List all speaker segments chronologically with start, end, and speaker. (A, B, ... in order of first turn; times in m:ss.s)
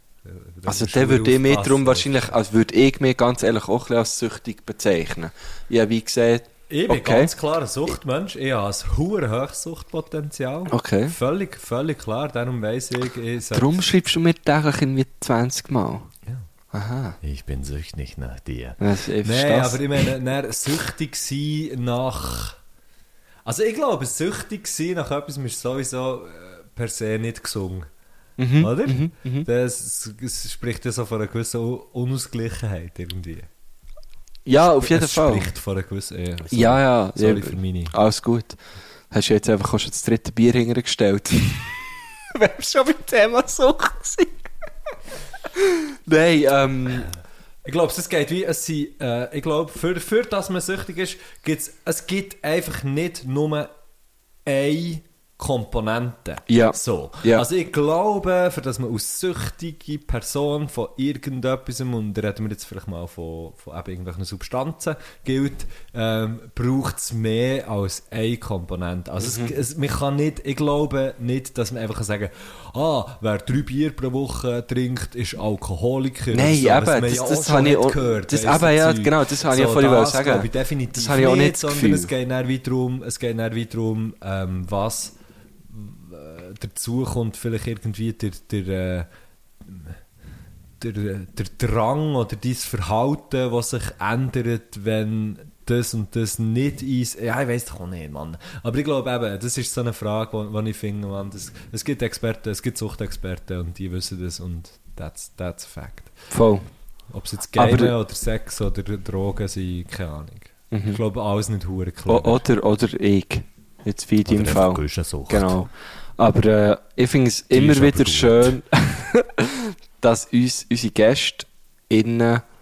0:00.2-0:02.3 A
0:00.6-0:07.3 B
0:06.7-0:13.8 A
0:10.7-0:11.1 B
0:13.5-0:16.1 B
0:16.7-0:17.2 B
0:17.2-0:22.6 A
0:18.8-0:20.1 B
0:23.4-0:27.9 A
0:28.4-0:29.5 B
0:28.6-0:33.5 A
0:34.4-0:35.5 B
0:34.6-0:37.9 A
0:36.5-0:38.6 B
0:39.1-0:41.7 B
0:42.3-0:44.5 B
0:45.5-0:47.1 B
0:47.6-0:53.7 A
0:54.4-1:25.1 A
0:56.5-0:57.4 B
1:09.2-1:09.5 B
1:16.3-1:22.1 B
1:25.7-1:29.1 A
1:29.6-1:30.0 A
1:30.8-1:46.1 A
1:46.3-1:46.7 B
1:47.1-1:52.4 A
1:47.5-1:47.9 B
1:50.7-1:51.0 B
1:52.1-2:02.4 B
1:54.2-1:55.6 A
1:57.5-1:58.6 A